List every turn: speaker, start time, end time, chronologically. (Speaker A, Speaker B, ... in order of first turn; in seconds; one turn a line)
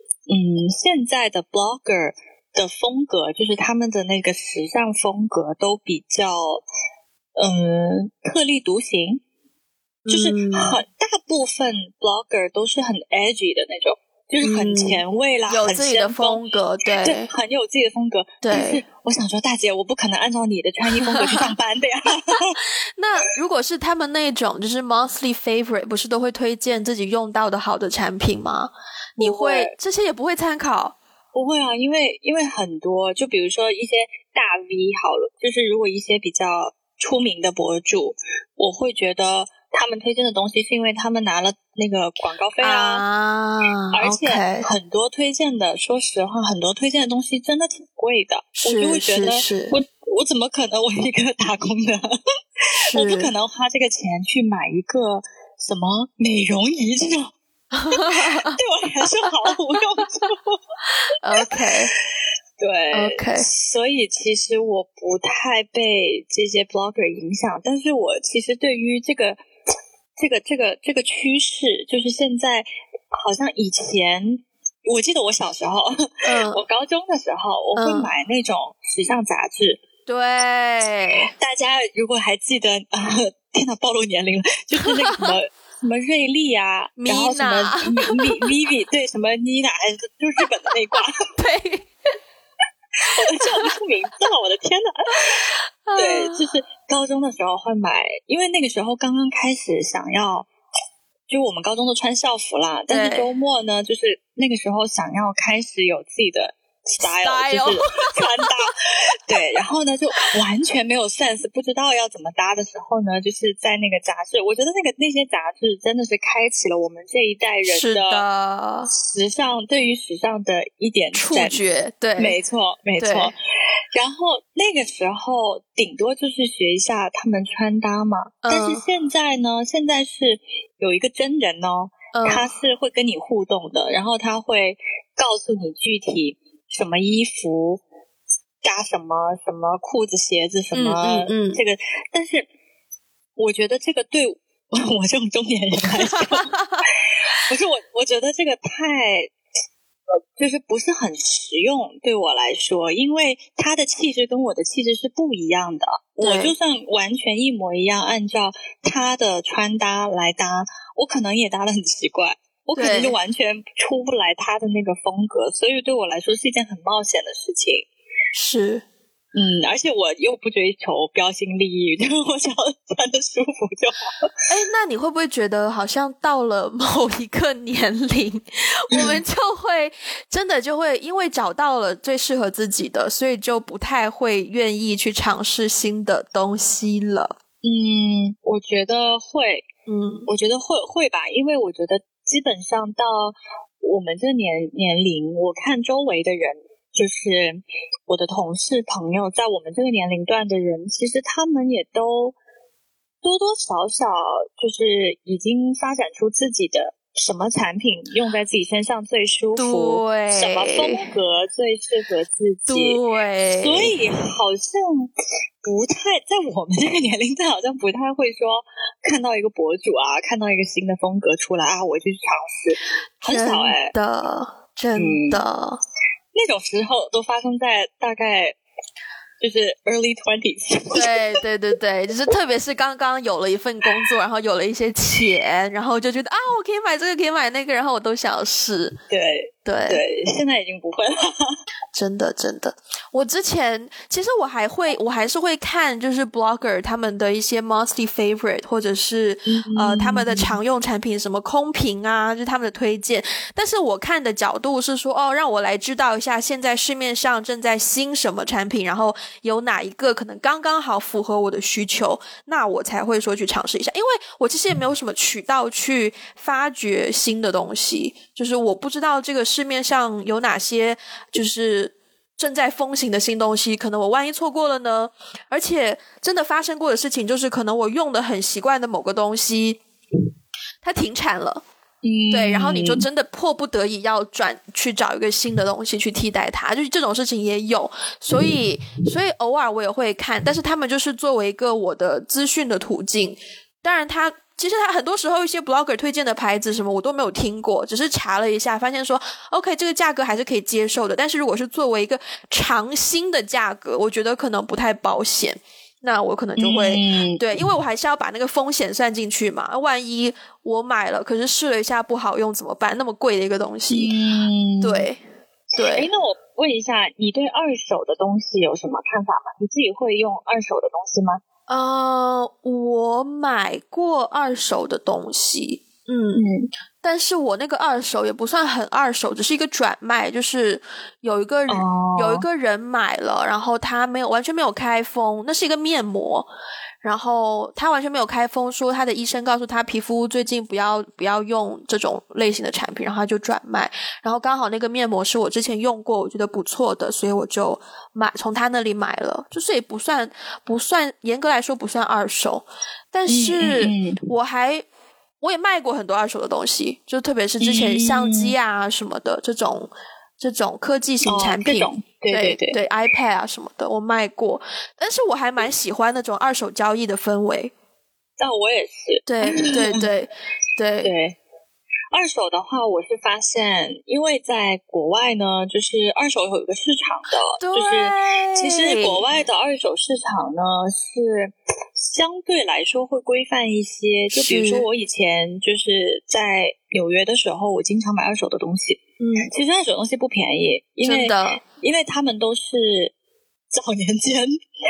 Speaker A: 0.3-6.6
Speaker A: 7.4-9.2
Speaker B: 10.0-10.8
Speaker A: 10.1-16.4
Speaker B: 14.4-17.3
Speaker A: 17.0-22.6
Speaker B: 18.4-18.8
Speaker B: 20.9-21.5
Speaker B: 23.0-30.9
Speaker A: 29.2-29.7
Speaker A: 31.3-43.0
Speaker B: 42.6-44.6
Speaker A: 43.9-57.3
Speaker B: 48.6-49.7
Speaker B: 52.9-53.3
Speaker B: 57.7-58.6
Speaker A: 57.9-60.6
Speaker B: 61.2-61.9
Speaker A: 61.3-61.7
Speaker A: 62.6-69.4
Speaker B: 62.9-63.5
Speaker A: 70.2-79.8
Speaker B: 76.2-76.6
Speaker B: 77.8-78.1
Speaker B: 80.1-81.3
Speaker A: 81.4-91.2
Speaker B: 87.0-88.5
Speaker B: 91.4-91.9
Speaker A: 93.0-100.5
Speaker B: 93.0-93.7
Speaker B: 95.8-96.4
Speaker A: 101.3-118.2
Speaker B: 102.9-103.3
Speaker B: 107.0-108.5
Speaker B: 117.7-118.9
Speaker A: 118.9-121.6
Speaker B: 121.1-122.3
Speaker A: 122.2-123.3
Speaker B: 123.0-123.3
Speaker A: 123.9-137.8
Speaker B: 128.4-128.8
Speaker B: 132.1-132.5
Speaker A: 138.6-142.5
Speaker B: 140.7-141.6
Speaker A: 143.4-149.3
Speaker B: 146.2-146.8
Speaker A: 150.4-167.9
Speaker B: 156.2-156.5
Speaker B: 162.8-163.1
Speaker B: 168.3-168.8
Speaker A: 169.3-174.3
Speaker B: 174.5-187.4
Speaker A: 178.9-179.2
Speaker A: 187.6-189.6
Speaker B: 189.9-190.3
Speaker A: 190.3-202.3
Speaker A: 203.2-215.1
Speaker B: 209.6-211.1
Speaker B: 212.7-213.9
Speaker A: 215.6-223.9
Speaker B: 223.2-225.8
Speaker A: 224.9-225.4
Speaker A: 226.3-228.6
Speaker A: 229.4-231.2
Speaker B: 230.9-238.9
Speaker A: 239.1-241.6
Speaker B: 239.6-240.0
Speaker B: 241.9-279.8
Speaker A: 249.4-250.6
Speaker B: 280.8-281.6
Speaker A: 282.0-283.1
Speaker B: 282.3-314.1
Speaker A: 306.6-307.4
Speaker A: 313.9-315.1
Speaker B: 314.8-315.2
Speaker B: 315.8-316.1
Speaker A: 315.9-321.4
Speaker B: 321.7-326.4
Speaker A: 326.3-326.7
Speaker B: 327.0-336.5
Speaker A: 331.7-332.4
Speaker B: 337.0-354.8
Speaker A: 353.3-354.2
Speaker B: 355.4-367.7
Speaker A: 357.6-358.5
Speaker A: 361.2-362.8
Speaker A: 368.4-370.1
Speaker B: 369.2-371.1
Speaker A: 371.0-371.4
Speaker A: 372.1-393.1
Speaker B: 377.6-379.2
Speaker B: 384.3-384.9
Speaker B: 389.2-389.5
Speaker B: 391.0-391.6
Speaker A: 393.7-394.5